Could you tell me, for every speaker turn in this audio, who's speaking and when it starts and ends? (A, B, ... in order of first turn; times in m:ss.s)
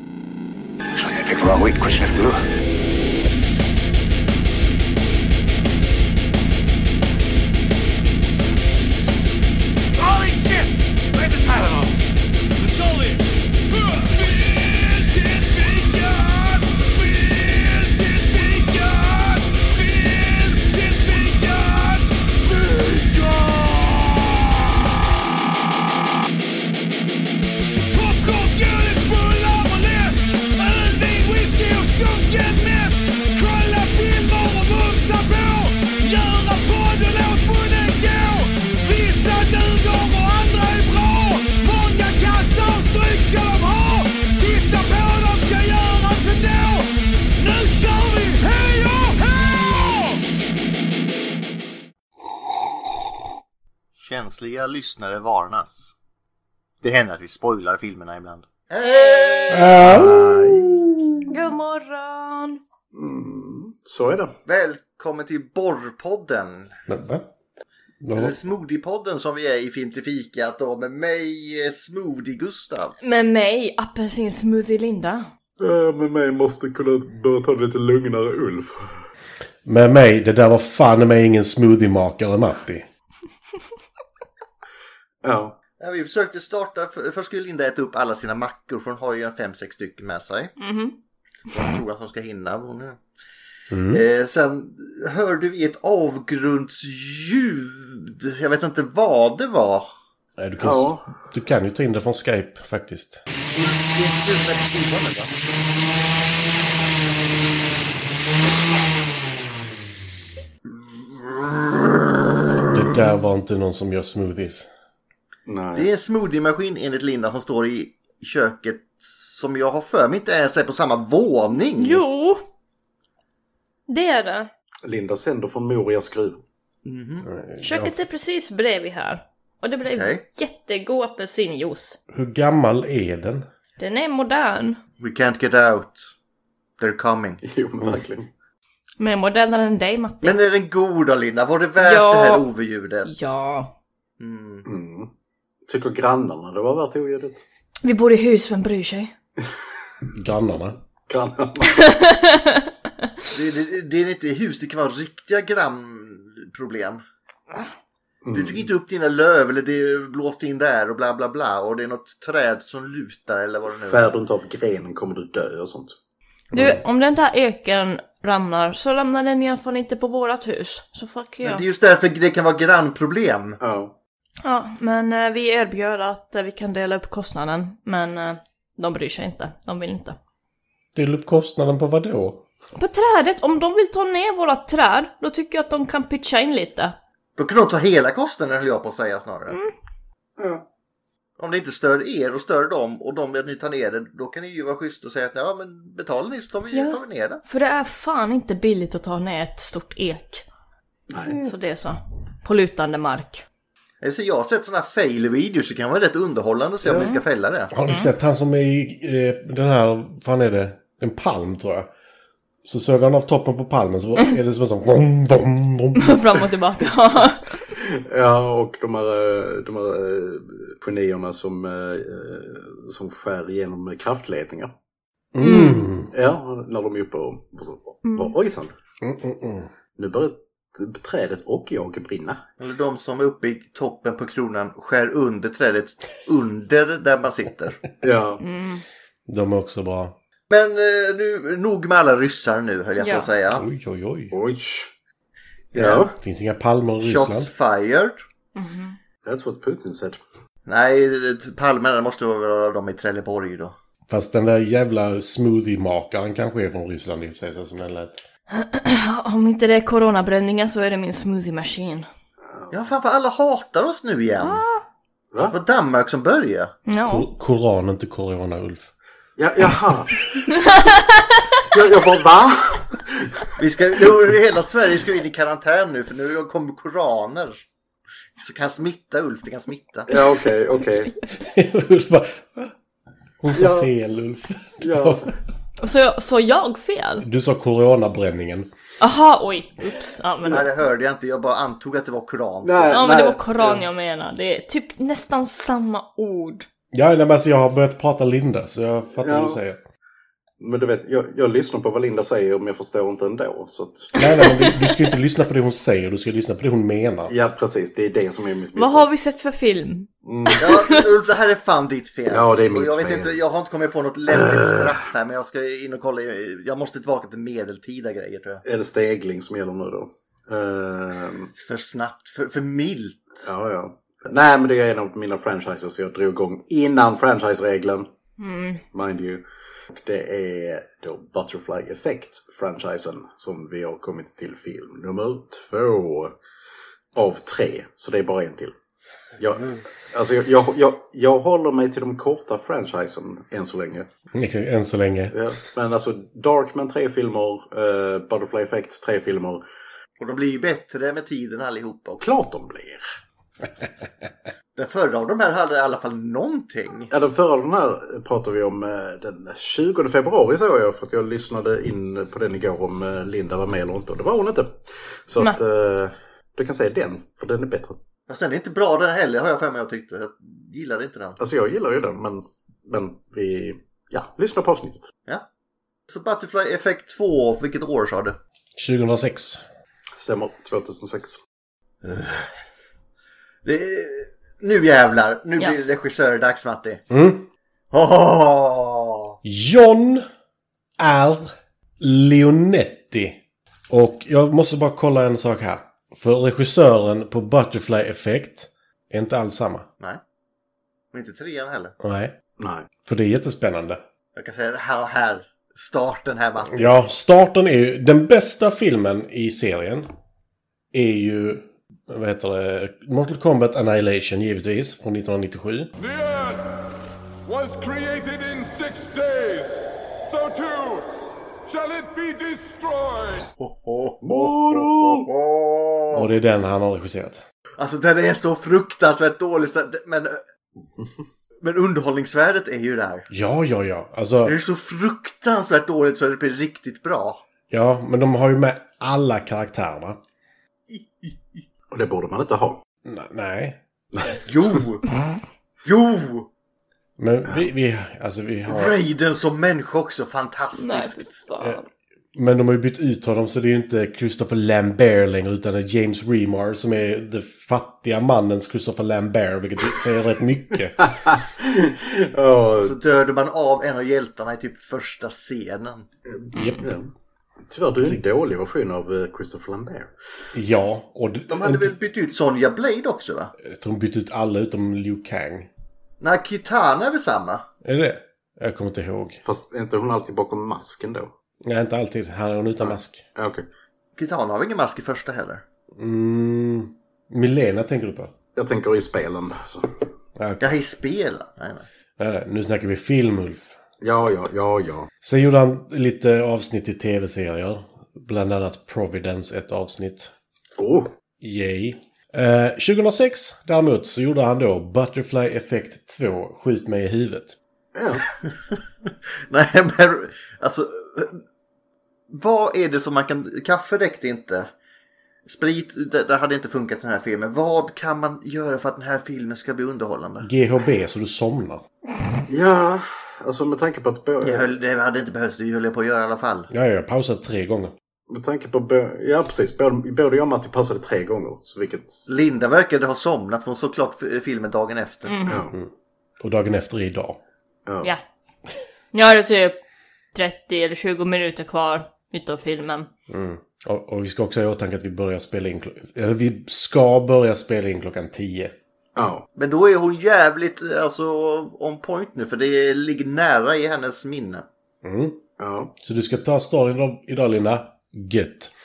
0:01.0-0:02.4 A
0:10.0-0:12.0 B
0:12.6-0:24.9 B
0:27.9-0:50.2 B
0:54.0-0:55.9 C
0:56.8-0:59.8 C
0:58.8-0:59.7 D
0:59.5-1:01.2 E
0:59.8-1:00.9 A
1:01.3-1:02.6 D
1:02.9-1:04.3 A
1:04.4-1:06.7 C
1:06.9-1:07.2 E
1:08.0-1:08.3 E
1:08.1-1:13.0 C
1:13.0-1:15.3 D
1:15.6-1:19.0 A
1:19.6-1:22.8 E
1:25.2-1:25.6 A
1:25.8-1:30.5 C
1:30.6-1:30.9 D
1:31.5-1:33.0 C
1:33.7-1:34.0 E
1:33.9-1:39.9 C
1:40.4-1:43.2 E
1:40.6-1:41.1 A
1:43.5-1:45.3 C
1:50.9-1:52.7 C
1:52.7-1:54.7 E
1:55.4-1:55.9 A
1:55.7-2:02.0 C
2:01.8-2:02.4 D
2:03.9-2:04.5 D
2:04.8-2:06.4 A
2:06.8-2:07.3 C
2:07.2-2:07.9 E
2:07.6-2:12.0 D
2:09.9-2:10.2 C
2:12.1-2:13.5 E
2:13.8-2:14.8 D
2:15.0-2:16.1 C
2:16.8-2:17.4 C
2:17.4-2:18.3 A
2:19.0-2:20.4 D
2:20.2-2:23.3 C
2:21.8-2:22.4 D
2:23.0-2:23.7 D
2:24.2-2:24.7 C
2:24.6-2:25.1 A
2:25.7-2:27.4 A
2:27.8-2:29.1 D
2:30.1-2:30.8 E
2:31.0-2:31.8 A
2:31.8-2:32.7 D
2:33.3-2:37.0 C
2:38.2-2:38.7 A
2:38.3-2:44.1 C
2:43.6-2:45.9 A
2:46.5-2:46.8 E
2:46.5-2:51.6 D
2:51.4-2:53.6 C
2:53.6-2:53.9 A
2:54.4-3:00.2 D
3:01.0-3:02.4 E
3:02.8-3:06.9 D
3:07.4-3:09.6 C
3:09.5-3:09.7 D
3:10.4-3:10.6 A
3:11.4-3:17.4 C
3:16.7-3:20.4 D
3:21.1-3:21.4 A
3:21.4-3:23.4 D
3:24.0-3:27.7 C
3:27.7-3:31.9 E
3:32.6-3:36.2 E
3:36.0-3:37.6 D
3:37.7-3:44.7 A
3:45.3-3:46.1 E
3:45.4-3:45.8 D
3:46.1-3:48.7 A
3:48.0-3:48.4 D
3:49.0-3:49.7 E
3:50.0-3:52.4 A
3:52.6-3:57.8 C
3:58.0-3:58.4 A
3:58.4-3:58.8 D
3:59.3-4:00.1 E
4:00.5-4:03.6 C
4:03.0-4:03.3 D
4:03.5-4:04.3 E
4:04.3-4:04.9 A
4:05.7-4:06.2 A
4:05.7-4:06.1 C
4:06.2-4:07.5 E
4:07.0-4:08.2 C
4:08.6-4:09.0 D
4:09.2-4:10.2 A
4:10.6-4:13.7 C
4:14.1-4:18.2 E
4:18.5-4:22.1 D
4:22.4-4:22.7 A
4:22.7-4:24.6 C
4:24.4-4:24.8 D
4:25.5-4:26.7 C
4:26.9-4:27.3 D
4:27.0-4:28.9 E
4:29.4-4:30.2 A
4:30.6-4:31.5 D
4:31.7-4:34.0 A
4:33.6-4:37.6 C
4:38.4-4:40.1 C
4:40.1-4:41.1 A
4:41.3-4:42.7 E
4:43.4-4:45.3 E
4:43.5-4:43.9 A
4:44.8-4:45.3 A
4:45.8-4:47.2 D
4:47.2-4:48.7 E
4:49.0-4:50.7 D
4:50.5-4:53.0 C
4:52.6-4:53.8 A
4:52.9-4:56.7 D
4:56.9-4:59.8 E
4:59.2-4:59.6 A
5:00.6-5:04.1 A
5:04.2-5:04.9 D
5:04.2-5:07.3 E
5:07.2-5:09.1 A
5:08.8-5:11.0 D
5:10.2-5:10.8 A
5:10.6-5:18.6 C
5:12.3-5:13.4 A
5:14.3-5:14.9 A
5:18.6-5:21.5 A
5:21.6-5:23.4 C
5:23.4-5:28.1 A
5:28.4-5:28.8 D
5:28.9-5:36.4 A
5:37.1-5:38.7 A
5:39.4-5:44.1 A
5:44.3-5:45.3 E
5:45.3-5:49.6 A
5:50.2-5:52.2 C
5:52.2-5:53.0 A
5:54.8-5:57.1 C
5:57.1-6:08.0 A
6:08.3-6:11.4 C
6:11.4-6:15.1 A
6:16.1-6:18.4 C
6:18.8-6:19.6 E
6:20.2-6:21.4 A
6:22.0-6:22.5 C
6:23.6-6:27.0 C
6:27.1-6:27.5 E
6:27.9-6:29.4 C
6:29.4-6:30.3 E
6:31.0-6:33.4 E
6:33.9-6:39.9 E
6:41.1-6:41.9 C
6:42.0-6:42.3 E
6:42.6-6:42.9 A
6:43.0-6:44.0 E
6:44.4-6:46.9 C
6:46.7-6:50.1 E
6:50.9-6:55.9 E
6:56.0-6:56.6 F
6:57.4-7:01.1 F
7:01.6-7:03.5 F
7:03.6-7:06.3 C
7:04.2-7:05.3 A
7:06.1-7:07.4 E
7:07.8-7:10.4 C
7:11.6-7:13.2 C
7:13.3-7:14.6 E
7:14.4-7:17.4 C
7:17.7-7:20.2 E
7:20.9-7:21.6 C
7:21.9-7:22.8 A
7:23.0-7:23.8 E
7:24.1-7:24.4 A
7:24.4-7:25.0 C
7:25.8-7:26.5 C
7:27.2-7:28.9 E
7:28.7-7:31.3 C
7:30.7-7:31.8 D
7:32.3-7:41.1 E
7:41.0-7:43.0 A
7:42.8-7:46.0 C
7:46.3-7:47.1 A
7:46.6-7:46.8 D
7:47.7-7:50.1 A
7:50.5-7:51.9 E
7:51.5-7:53.5 C
7:53.7-7:55.7 E
7:56.2-7:57.6 C
7:57.8-7:59.4 E
7:59.4-8:01.3 A
8:01.6-8:03.2 E
8:02.8-8:03.6 A
8:04.2-8:05.6 C
8:06.0-8:08.3 E
8:08.5-8:10.0 A
8:10.4-8:10.7 E
8:10.6-8:11.8 C
8:12.2-8:13.8 E
8:14.0-8:15.1 A
8:15.2-8:20.3 E
8:20.8-8:21.1 A
8:21.4-8:27.6 E
8:27.9-8:28.2 A
8:28.7-8:31.4 C
8:32.3-8:34.7 C
8:35.4-8:40.5 C
8:40.4-8:41.8 E
8:42.5-8:44.7 A
8:44.4-8:46.7 C
8:46.7-8:47.9 E
8:48.3-8:52.3 A
8:52.3-8:55.3 C
8:55.2-8:55.6 D
8:55.4-8:55.7 A
8:55.7-8:57.4 E
8:57.8-8:58.1 A
8:59.1-8:59.8 D
9:00.3-9:03.1 D
9:03.3-9:08.7 E
9:09.2-9:09.4 A
9:09.6-9:14.6 C
9:15.0-9:15.4 E
9:15.6-9:15.9 A
9:16.0-9:18.7 E